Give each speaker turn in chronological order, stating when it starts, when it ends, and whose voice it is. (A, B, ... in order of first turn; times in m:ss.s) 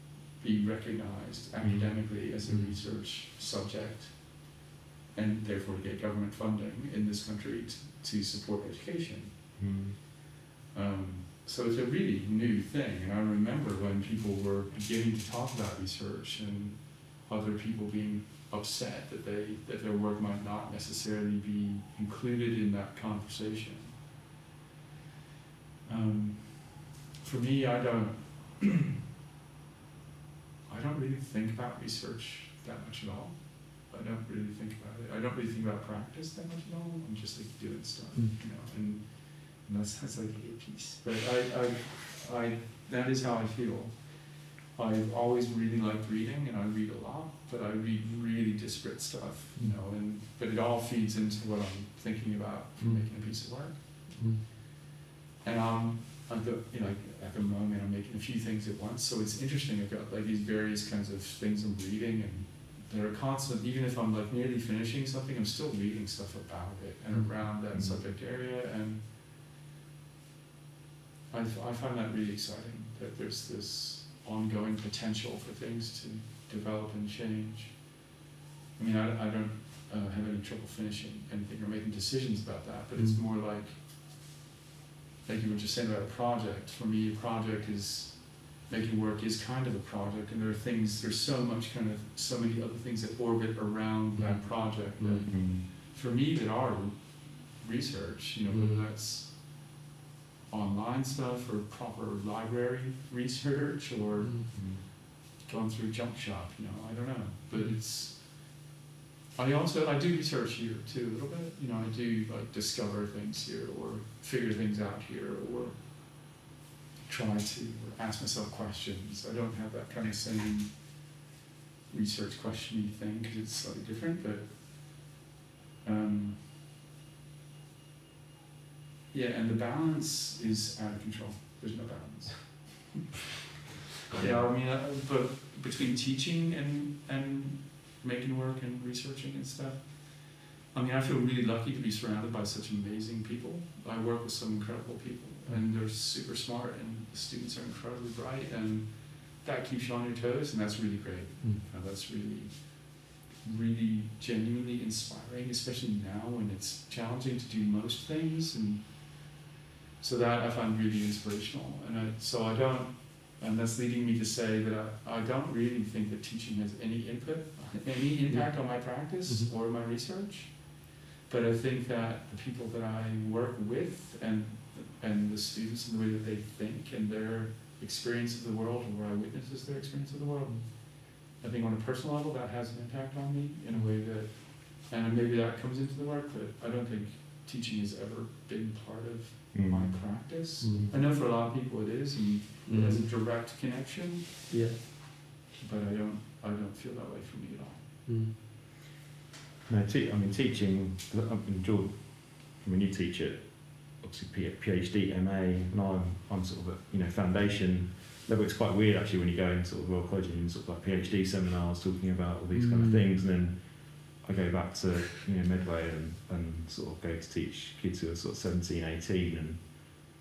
0:00.4-0:04.6 A
0:01.6-0:02.0 B
0:02.5-0:02.8 C
0:05.1-0:09.6 A
0:09.6-0:10.0 B
0:10.7-0:24.0 A
0:25.9-0:29.0 A
0:30.7-0:53.8 A
0:52.8-0:53.0 C
0:54.1-0:54.4 C
0:55.4-1:09.1 A
1:07.1-1:07.5 C
1:07.7-1:08.0 B
1:11.3-1:18.0 A
1:18.8-1:23.8 A
1:23.0-1:23.2 C
1:25.2-1:39.6 A
1:34.2-1:35.4 C
1:35.3-1:35.7 B
1:38.5-1:38.8 C
1:40.5-1:48.6 A
1:44.2-1:44.5 C
1:44.5-1:44.8 B
1:47.5-1:47.8 C
1:49.4-1:55.8 A
1:57.1-2:01.0 A
2:01.9-2:05.0 A
2:05.8-2:06.5 A
2:09.1-2:13.0 A
2:14.1-2:39.5 A
2:14.1-2:14.5 B
2:40.0-3:14.5 A
2:48.3-2:49.5 C
3:09.5-3:11.0 B
3:10.6-3:10.9 C
3:12.7-3:13.0 C
3:14.5-3:14.8 C
3:15.5-3:17.8 A
3:18.1-3:18.4 C
3:19.7-3:40.0 B
3:32.6-3:33.1 C